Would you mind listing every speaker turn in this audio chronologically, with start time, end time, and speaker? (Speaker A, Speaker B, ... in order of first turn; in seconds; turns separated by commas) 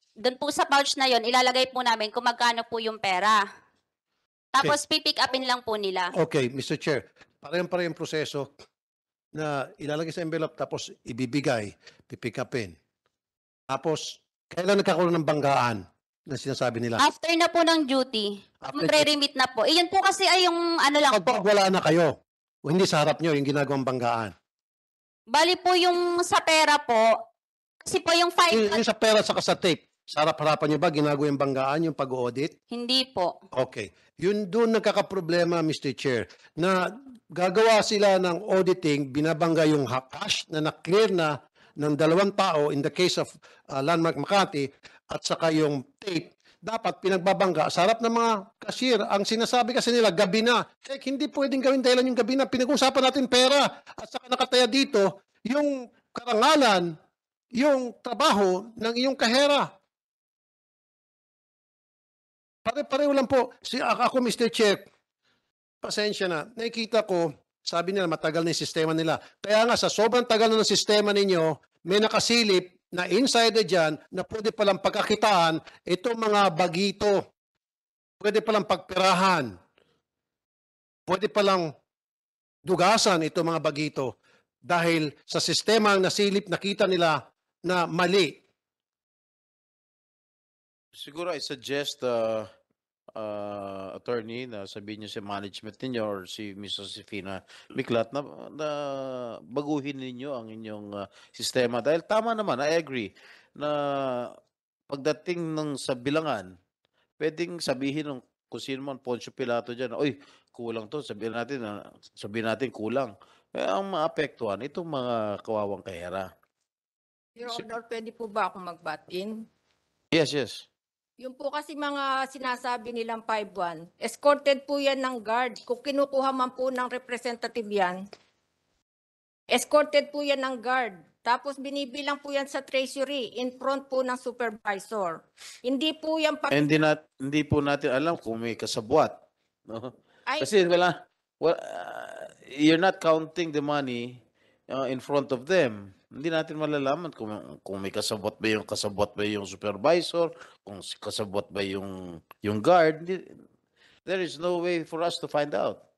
Speaker A: 0.2-3.4, Speaker A: 4.5-6.1, Speaker B: 6.1-8.5, Speaker B: 9.3-12.8, Speaker B: 13.7-17.0, Speaker A: 17.0-21.4, Speaker B: 18.6-19.1, Speaker B: 21.1-24.3, Speaker A: 25.3-27.1, Speaker A: 27.8-28.8, Speaker B: 28.5-32.5, Speaker A: 32.7-33.3, Speaker B: 33.5-36.8, Speaker B: 37.3-57.0, Speaker B: 57.5-59.7, Speaker B: 62.6-64.8, Speaker B: 65.8-77.2, Speaker B: 78.2-79.5, Speaker B: 81.1-81.7, Speaker B: 82.7-84.1, Speaker B: 84.7-88.4, Speaker C: 91.0-92.5, Speaker C: 93.2-104.3, Speaker C: 104.9-106.5, Speaker C: 107.2-116.3, Speaker D: 117.4-119.3, Speaker C: 120.1-120.6, Speaker D: 121.2-128.0, Speaker D: 129.5-136.7, Speaker C: 136.5-139.2, Speaker C: 139.7-144.2, Speaker D: 140.3-140.5, Speaker C: 144.7-153.3, Speaker C: 154.1-155.8